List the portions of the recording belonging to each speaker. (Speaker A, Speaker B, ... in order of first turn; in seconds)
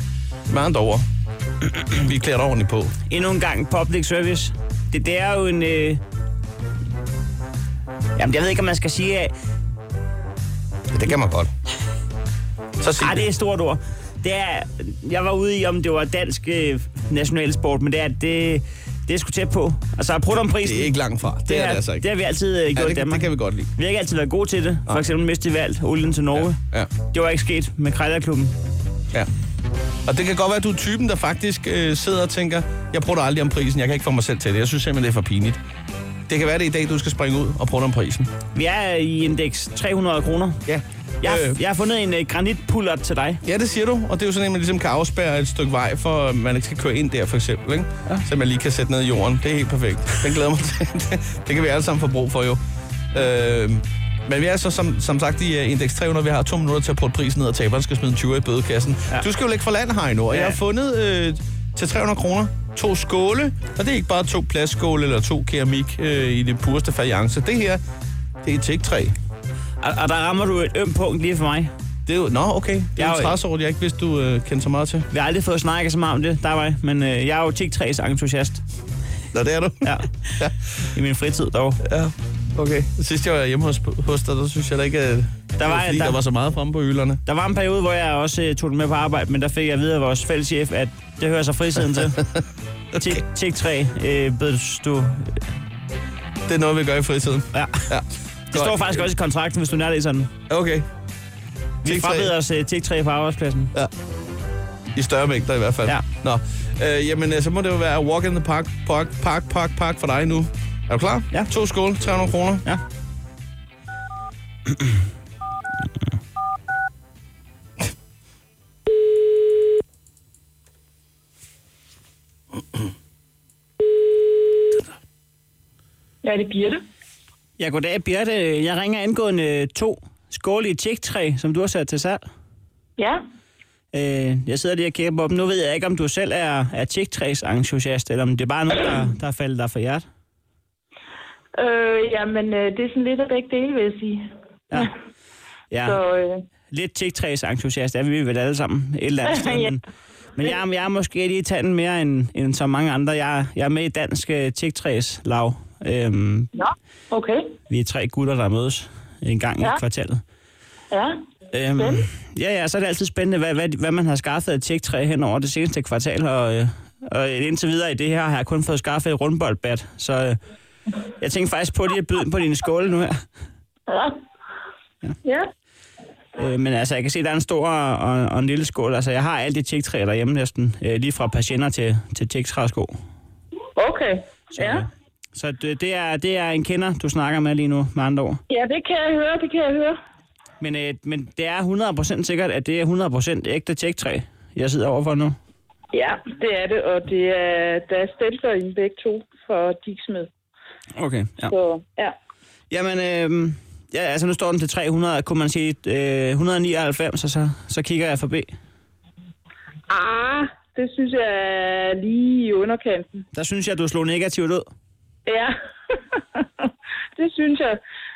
Speaker A: 0.5-1.1, 1.9-2.9, 10.9-11.5, 12.8-13.3, 20.4-22.1, 22.8-23.7, 26.3-26.9, 30.1-35.6, 36.3-38.3, 40.7-41.6, 43.4-52.6, 53.1-67.8, 68.4-69.2, 72.1-75.1, 79.3-80.6, 81.8-87.2, 96.5-99.1, 100.5-100.9, 101.8-102.3, 105.0-112.7
Speaker B: 3.1-6.0, 8.2-9.3, 13.0-20.9, 21.4-28.6, 38.5-40.6, 41.2-43.4, 60.3-60.6, 69.8-71.7, 73.0-73.4, 75.1-78.6, 79.8-80.1, 80.9-81.8, 85.6-86.2, 87.2-92.3, 92.9-95.4, 97.5-97.8, 98.5-100.3, 101.8-103.7, 127.6-132.2, 133.9-140.1, 145.7-146.0, 146.7-149.8, 150.3-156.5, 157.7-160.2, 161.5-170.4, 171.2-173.2, 176.4-182.9, 184.5-188.4, 190.6-195.4, 201.0-201.5, 202.7-208.5, 213.3-214.7
Speaker C: 126.2-126.8, 141.6-144.2, 145.8-146.4, 149.4-149.7, 156.6-157.5, 160.9-161.2, 161.8-162.0, 173.9-174.2, 183.8-184.8, 188.5-190.0, 195.9-200.3, 201.5-202.1, 209.9-213.2, 215.3-215.5, 216.2-217.8